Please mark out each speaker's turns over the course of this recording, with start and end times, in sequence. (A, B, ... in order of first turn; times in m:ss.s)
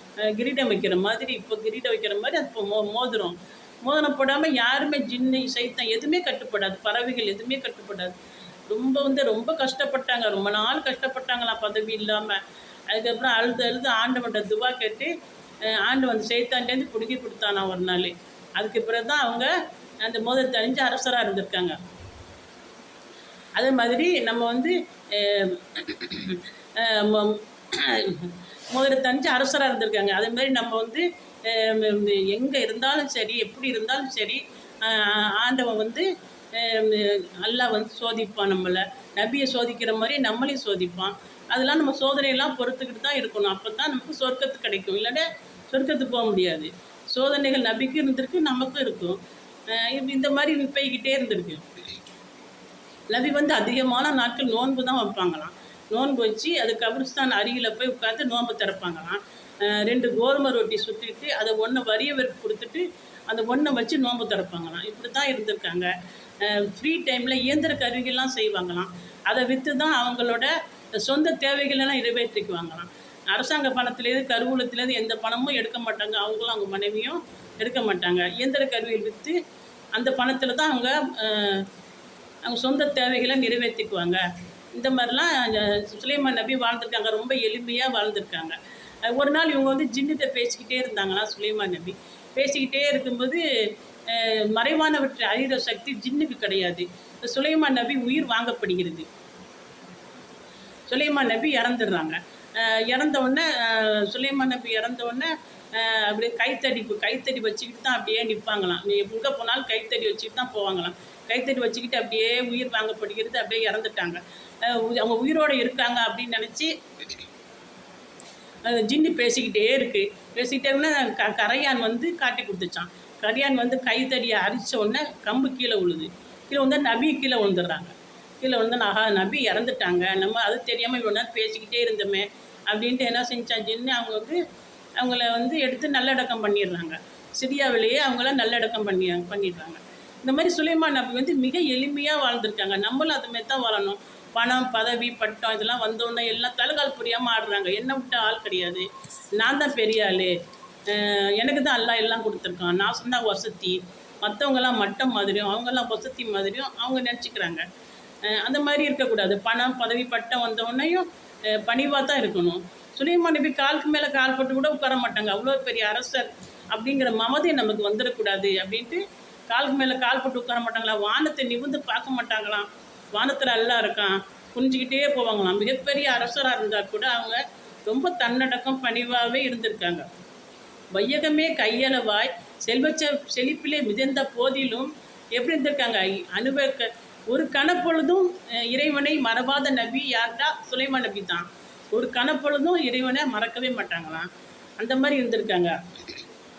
0:00.2-0:08.2 A
0:08.7-0:15.1 A
0:15.6-0:21.8 A
0:23.6-0:51.6 A
0:53.1-1:19.4 A
1:20.0-1:21.7 A
1:22.4-1:24.2 A
1:24.7-1:33.4 A
1:34.1-1:39.1 A
1:40.9-1:56.7 A
1:58.6-2:14.4 A
2:15.0-2:28.9 A
2:29.4-2:30.4 A
2:30.9-2:37.6 A
2:38.2-3:00.0 A
3:00.9-3:15.8 A